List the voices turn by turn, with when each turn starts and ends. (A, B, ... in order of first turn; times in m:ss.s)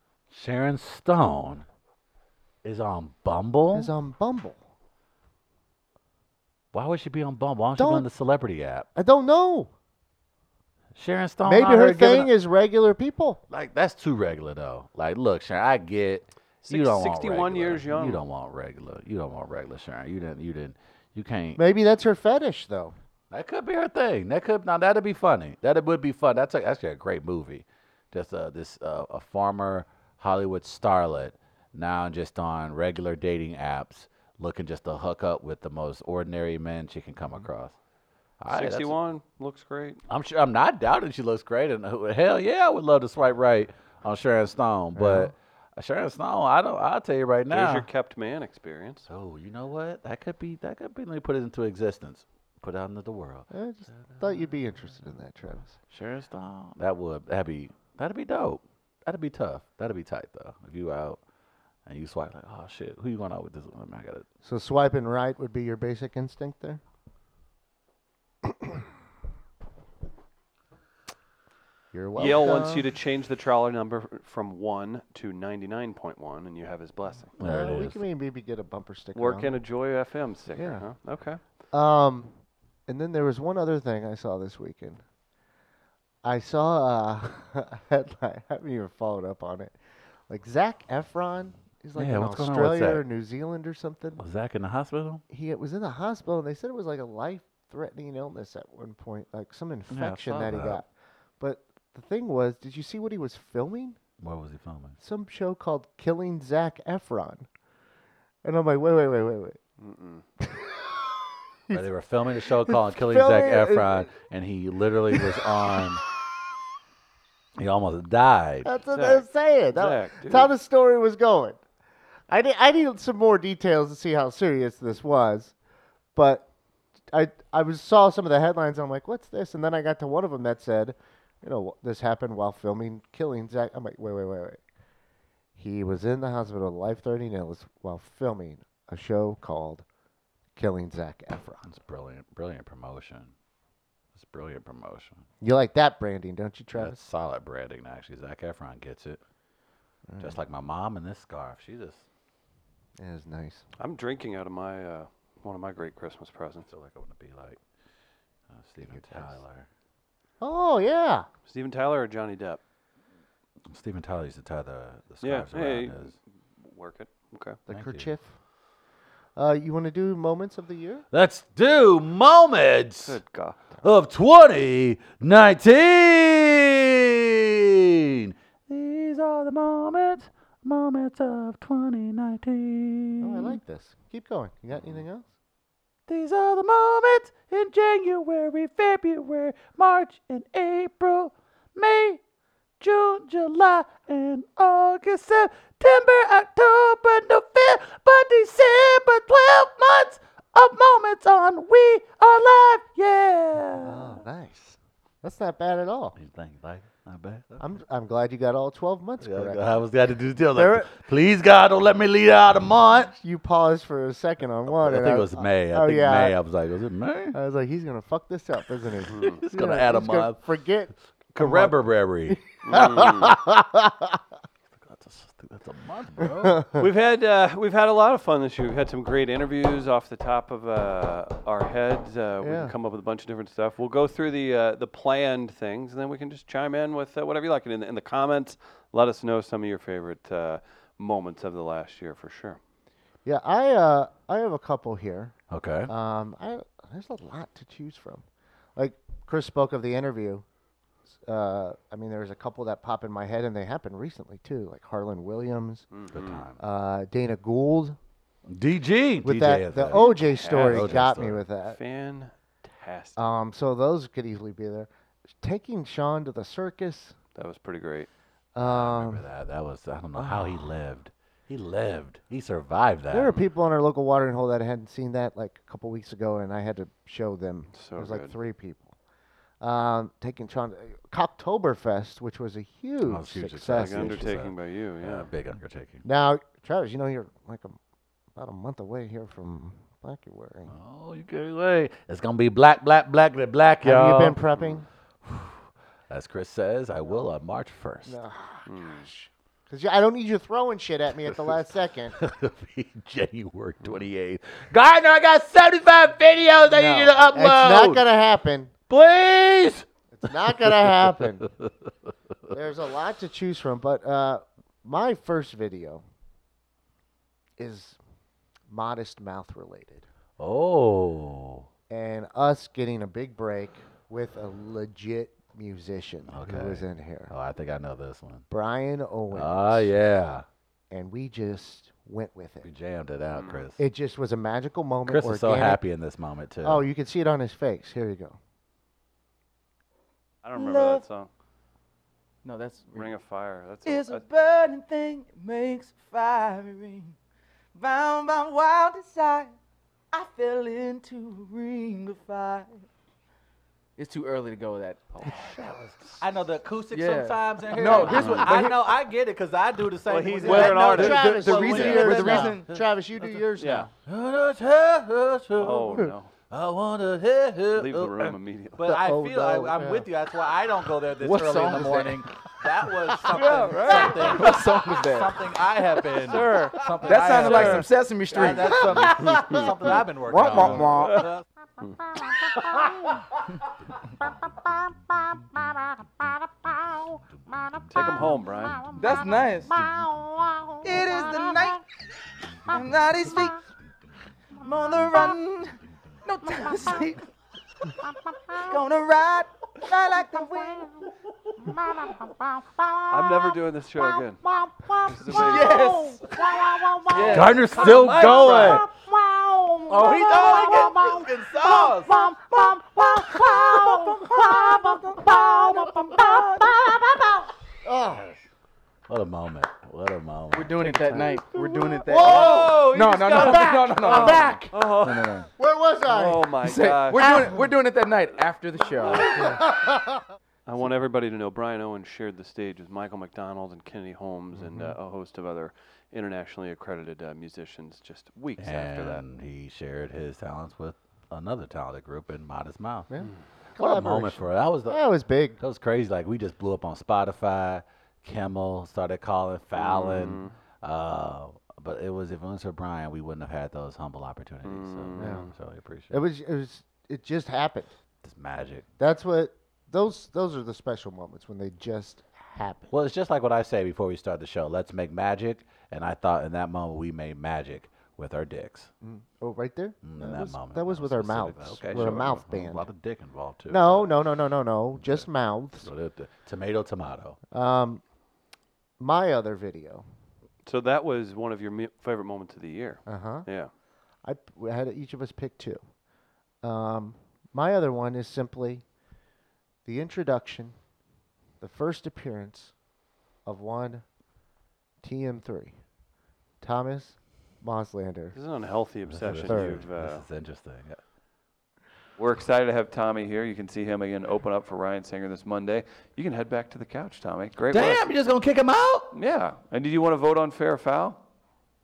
0:00.3-0:01.7 A
0:02.6-0:03.9 A
0:03.7-0:04.6 B
0:06.7-0:08.9 A
0:07.8-0:08.1 B
0:09.0-0:09.7 B
0:11.0-0:12.3 A
0:11.4-0:13.4 B
0:13.5-0:21.6 A
0:16.6-0:18.2 C
0:21.6-0:23.0 B
0:23.3-0:37.8 A
0:38.4-0:39.0 A
0:38.5-0:40.0 C
0:40.1-0:47.9 A
0:45.0-0:45.3 B
0:47.5-0:49.1 C
0:49.1-0:54.3 A
0:53.5-0:55.8 B
0:55.9-1:01.2 A
1:01.9-1:04.3 A
1:04.4-1:06.8 B
1:11.9-1:12.9 B
1:12.2-1:17.3 C
1:17.4-1:18.0 A
1:17.4-1:19.5 B
1:19.2-1:21.4 C
1:20.6-1:20.9 B
1:21.7-1:25.0 B
1:26.2-1:29.8 B
1:30.3-1:34.2 B
1:32.0-1:33.0 A
1:34.2-1:35.2 A
1:35.3-1:40.9 B
1:39.9-1:40.8 A
1:41.4-1:44.0 B
1:44.2-1:45.0 A
1:45.0-1:47.5 B
1:48.4-1:49.6 B
1:49.8-1:50.2 C
1:50.4-1:50.8 B
1:51.7-1:56.0 A
1:52.7-1:54.1 B
1:55.1-1:55.8 B
1:57.6-1:58.7 A
1:58.6-2:01.6 B
1:58.9-2:00.5 C
2:02.3-2:05.6 B
2:06.2-2:06.5 B
2:07.1-2:14.6 B
2:15.6-2:19.8 B
2:20.6-2:21.6 B
2:21.6-2:23.3 A
2:24.2-2:25.2 A
2:25.4-2:27.0 B
2:26.7-2:29.2 A
2:30.1-2:30.4 B
2:30.2-2:32.0 A
2:33.0-2:33.6 B
2:33.8-2:36.7 C
2:36.7-2:37.6 A
2:38.5-2:39.7 A
2:38.8-2:39.4 B
2:40.4-2:41.3 B
2:41.5-2:42.6 C
2:43.7-2:46.2 A
2:45.2-2:47.6 C
2:47.7-2:48.4 B
2:47.7-2:48.1 A
2:49.4-2:51.0 B
2:51.1-2:53.2 A
2:53.0-2:53.6 C
2:53.8-3:03.6 A
3:03.2-3:05.3 B
3:06.1-3:12.2 A
3:12.8-3:24.2 A
3:23.8-3:26.2 B
3:26.2-3:27.6 A
3:27.6-3:29.6 B
3:29.2-3:33.2 A
3:30.5-3:30.9 B
3:33.2-3:36.4 B
3:34.7-3:37.4 A
3:37.3-3:44.2 B
3:39.0-3:40.4 A
3:39.1-3:39.4 C
3:41.3-3:43.5 A
3:42.6-3:43.4 C
3:44.8-3:46.6 A
3:46.2-3:46.8 B
3:46.8-4:02.6 C
3:52.4-3:52.7 B
4:03.2-4:05.4 B
4:05.5-4:05.9 A
4:05.9-4:10.4 B
4:11.2-4:15.9 B
4:15.9-4:16.4 C
4:16.1-4:16.6 A
4:16.6-4:18.0 B
4:18.5-4:21.4 A
4:19.2-4:21.8 B
4:19.9-4:21.0 C
4:21.7-4:23.2 C
4:23.2-4:24.9 B
4:25.4-4:27.2 B
4:27.4-4:28.1 C
4:28.6-4:29.2 B
4:28.6-4:33.4 A
4:30.2-4:30.7 B
4:33.1-4:38.9 B
4:37.7-4:38.3 C
4:39.6-4:44.4 B
4:43.0-4:46.0 A
4:43.7-4:45.3 C
4:46.0-4:47.8 B
4:48.4-4:50.8 B
4:50.7-4:54.4 A
4:53.8-4:54.9 B
4:55.2-4:58.2 A
4:58.1-5:02.2 B
4:58.7-4:59.1 C
5:01.3-5:01.6 A
5:02.2-5:08.0 A
5:06.7-5:08.7 B
5:08.9-5:09.9 A
5:10.1-5:11.5 B
5:10.5-5:11.7 A
5:12.5-5:16.0 B
5:17.6-5:18.0 B
5:18.7-5:20.1 B
5:20.4-5:21.7 A
5:21.9-5:27.3 B
5:26.3-5:28.4 A
5:28.5-5:30.0 B
5:29.3-5:30.5 A
5:30.9-5:32.7 B
5:32.6-5:33.8 A
5:33.3-5:33.7 C
5:33.8-5:35.8 B
5:35.1-5:36.8 A
5:36.6-5:38.4 B
5:40.4-5:41.3 C
5:40.6-5:41.1 D
5:42.4-5:43.1 D
5:42.9-5:44.2 C
5:43.8-5:47.2 D
5:47.8-5:49.6 D
5:50.1-5:52.8 D
5:54.0-5:55.3 D
5:55.2-6:02.8 A
5:56.9-5:58.8 D
5:57.9-5:58.6 C
6:00.1-6:02.2 C
6:00.4-6:02.8 D
6:00.4-6:03.9 B
6:03.6-6:03.9 C
6:04.1-6:21.4 A
6:05.6-6:06.3 C
6:07.7-6:08.9 C
6:08.9-6:10.1 B
6:11.2-6:12.3 D
6:13.3-6:14.6 C
6:13.4-6:15.5 D
6:16.2-6:19.2 D
6:16.3-6:19.7 C
6:20.3-6:21.0 B
6:20.3-6:21.3 D
6:22.6-6:23.1 D
6:27.9-6:28.9 C
6:28.9-6:31.8 D
6:32.7-6:33.6 D
6:34.6-6:37.3 D
6:38.5-6:41.1 D
6:41.6-6:57.4 D
6:43.1-6:44.4 C
6:45.0-6:46.2 C
6:47.1-6:48.8 C
6:47.3-6:48.9 A
6:49.9-6:52.3 A
6:57.8-6:58.3 B
6:59.1-7:01.2 A
7:00.5-7:05.5 D
7:01.0-7:01.3 C
7:02.0-7:02.8 B
7:02.1-7:05.4 C
7:03.3-7:04.7 B
7:05.6-7:06.5 B
7:06.1-7:07.6 C
7:06.6-7:09.6 D
7:07.2-7:07.6 B
7:09.0-7:09.6 C
7:09.3-7:10.2 B
7:10.7-7:19.2 C
7:14.6-7:15.0 B
7:18.6-7:23.1 A
7:23.1-7:25.6 B
7:23.8-7:25.0 A
7:25.6-7:36.2 A
7:29.8-7:30.5 C
7:34.6-7:35.5 C
7:35.2-7:35.5 B
7:36.1-7:37.9 B
7:38.2-7:38.9 A
7:39.0-7:42.9 B
7:42.9-7:48.9 A
7:49.0-7:52.9 B
7:50.0-7:54.1 A
7:51.9-7:52.4 C
7:53.7-7:55.9 B
7:55.0-7:55.3 A
7:55.8-7:57.4 A
7:57.5-7:58.0 B
7:59.0-8:00.1 B
8:00.6-8:03.7 C
8:03.1-8:03.5 B
8:04.2-8:05.8 B
8:06.6-8:08.8 B
8:09.8-8:10.8 B
8:11.6-8:12.8 B
8:13.5-8:14.1 B
8:15.0-8:15.8 B
8:16.6-8:18.4 B
8:18.3-8:20.2 C
8:19.1-8:21.0 A
8:19.5-8:19.8 B
8:22.2-8:28.0 C
8:27.7-8:29.1 A
8:29.1-8:31.2 C